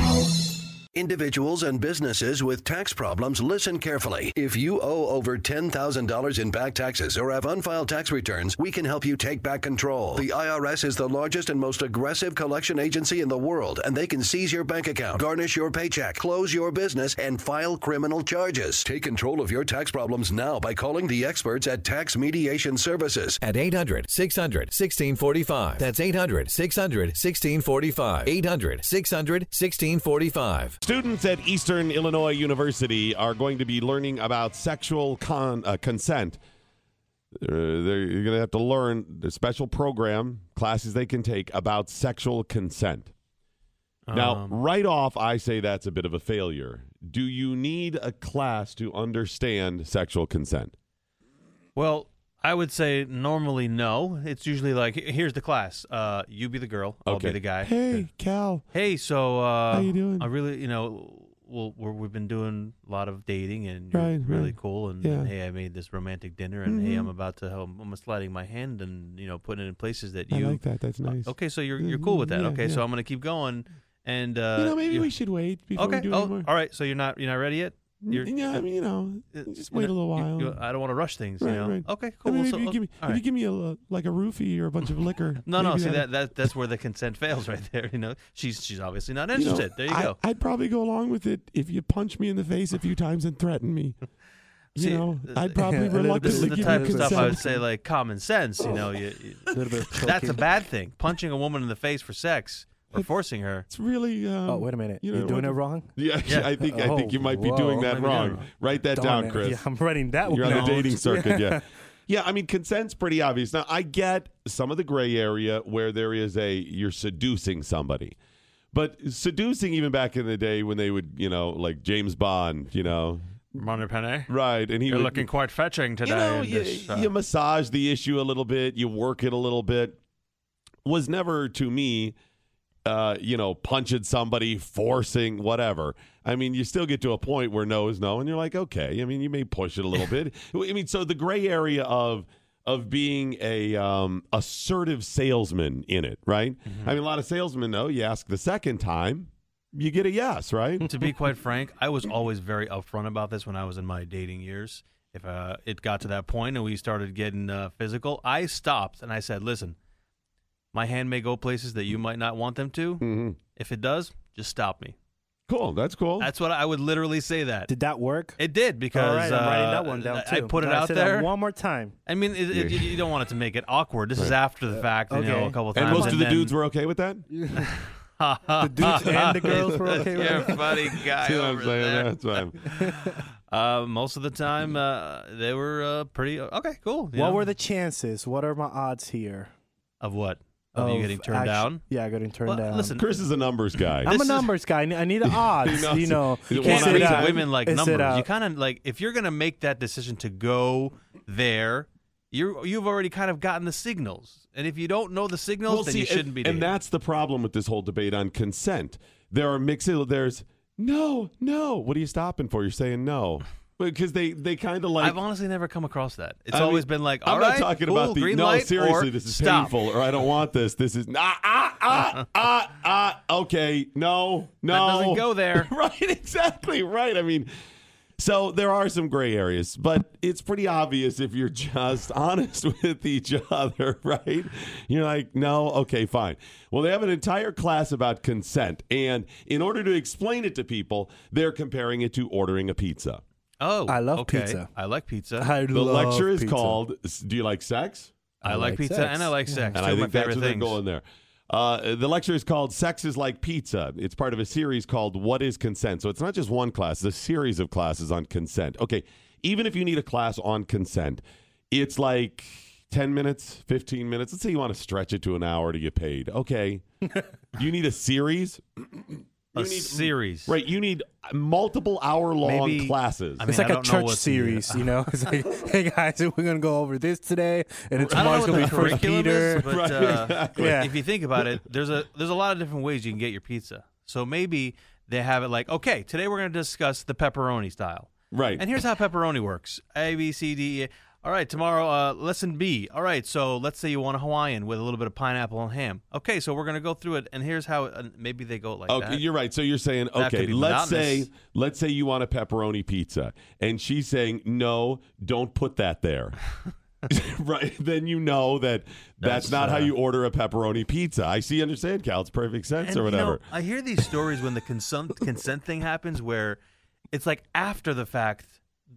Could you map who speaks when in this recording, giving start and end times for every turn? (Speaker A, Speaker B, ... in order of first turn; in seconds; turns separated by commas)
Speaker A: 0.9-23.4, Speaker B: 23.4-30.8, Speaker C: 30.8-36.4, Speaker C: 37.4-43.1, Speaker D: 44.1-44.6, Speaker C: 44.1-50.7, Speaker D: 51.8-58.1, Speaker C: 57.0-58.6, Speaker D: 58.7-75.1, Speaker C: 59.7-60.3, Speaker C: 63.9-65.3, Speaker C: 66.7-67.1, Speaker C: 70.3-72.8, Speaker C: 74.5-76.5, Speaker D: 75.8-78.7, Speaker C: 78.0-80.6, Speaker D: 79.3-83.2, Speaker C: 81.4-86.1, Speaker D: 85.5-90.2, Speaker C: 89.3-94.0, Speaker C: 94.7-97.5, Speaker D: 94.8-95.7, Speaker E: 95.6-97.6, Speaker D: 96.2-103.7, Speaker E: 99.5-100.4, Speaker C: 103.7-109.7, Speaker E: 104.5-105.9, Speaker D: 106.2-106.5, Speaker E: 106.5-107.9, Speaker D: 107.8-108.5, Speaker E: 108.9-111.7, Speaker C: 110.2-118.1, Speaker D: 110.4-110.9, Speaker C: 118.7-123.2, Speaker D: 123.5-124.3, Speaker C: 124.3-125.2, Speaker D: 124.8-127.1, Speaker C: 126.0-130.0, Speaker C: 130.8-132.1, Speaker C: 132.8-150.9, Speaker D: 146.7-146.9, Speaker D: 150.8-159.8, Speaker D: 160.7-164.9, Speaker C: 163.0-163.4, Speaker C: 165.5-166.3, Speaker D: 166.2-167.7, Speaker E: 167.7-168.4, Speaker D: 168.4-171.3, Speaker E: 168.9-171.9, Speaker D: 172.1-176.6, Speaker C: 172.5-173.1, Speaker E: 175.1-176.2, Speaker C: 175.7-177.3, Speaker E: 177.3-177.6, Speaker D: 177.5-187.5, Speaker E: 178.6-180.6, Speaker C: 179.0-183.2, Speaker E: 182.7-183.1, Speaker E: 187.1-189.5, Speaker D: 190.0-191.9, Speaker E: 190.8-193.0, Speaker D: 192.4-193.3, Speaker C: 192.9-194.1, Speaker D: 194.0-194.5, Speaker E: 194.0-198.3, Speaker C: 195.3-197.5, Speaker D: 196.5-206.7, Speaker C: 205.7-215.2, Speaker D: 215.0-219.8, Speaker C: 216.5-227.5, Speaker D: 224.7-225.7, Speaker C: 228.2-243.2, Speaker D: 243.6-245.5, Speaker E: 243.9-244.7, Speaker E: 245.4-246.8, Speaker C: 245.7-248.1, Speaker E: 248.4-249.7, Speaker D: 248.4-250.8, Speaker C: 249.7-266.8, Speaker C: 267.5-269.0, Speaker D: 269.5-270.5, Speaker C: 269.5-273.4, Speaker D: 272.5-275.1, Speaker E: 273.4-279.7, Speaker C: 278.0-280.8, Speaker D: 278.1-299.2, Speaker E: 280.5-280.9, Speaker C: 288.3-288.6, Speaker C: 298.9-306.4, Speaker D: 300.1-301.3, Speaker C: 307.1-313.4, Speaker D: 309.2-309.9, Speaker D: 312.8-316.6, Speaker D: 317.1-318.6